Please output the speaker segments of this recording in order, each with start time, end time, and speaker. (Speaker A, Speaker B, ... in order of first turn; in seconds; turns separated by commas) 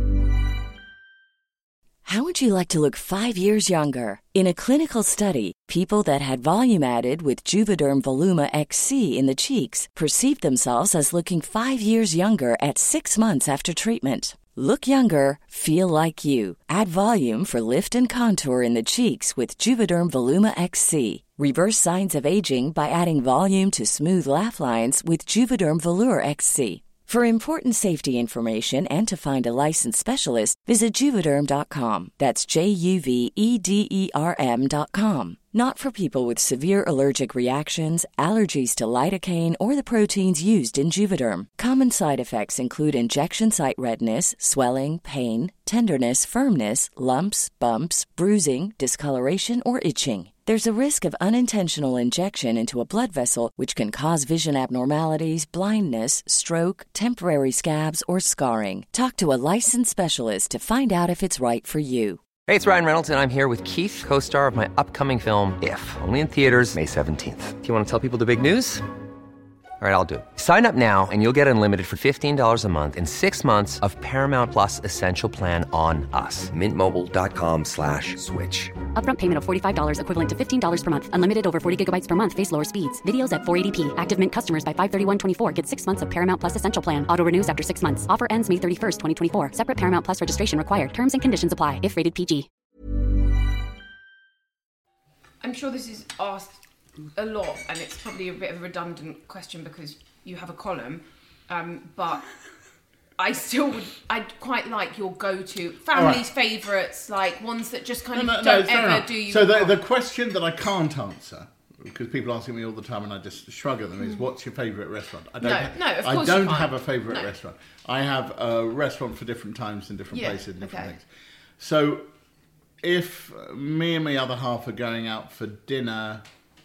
Speaker A: 2.0-62.2, Speaker B: 62.4-68.8, Speaker B: 69.8-78.7, Speaker C: 78.9-92.5, Speaker D: 95.4-96.6, Speaker D: 97.1-102.2, Speaker D: 103.2-109.8, Speaker E: 105.9-106.2, Speaker E: 108.1-121.0, Speaker D: 115.4-117.3, Speaker D: 120.1-120.9, Speaker E: 121.6-122.0, Speaker E: 122.8-126.2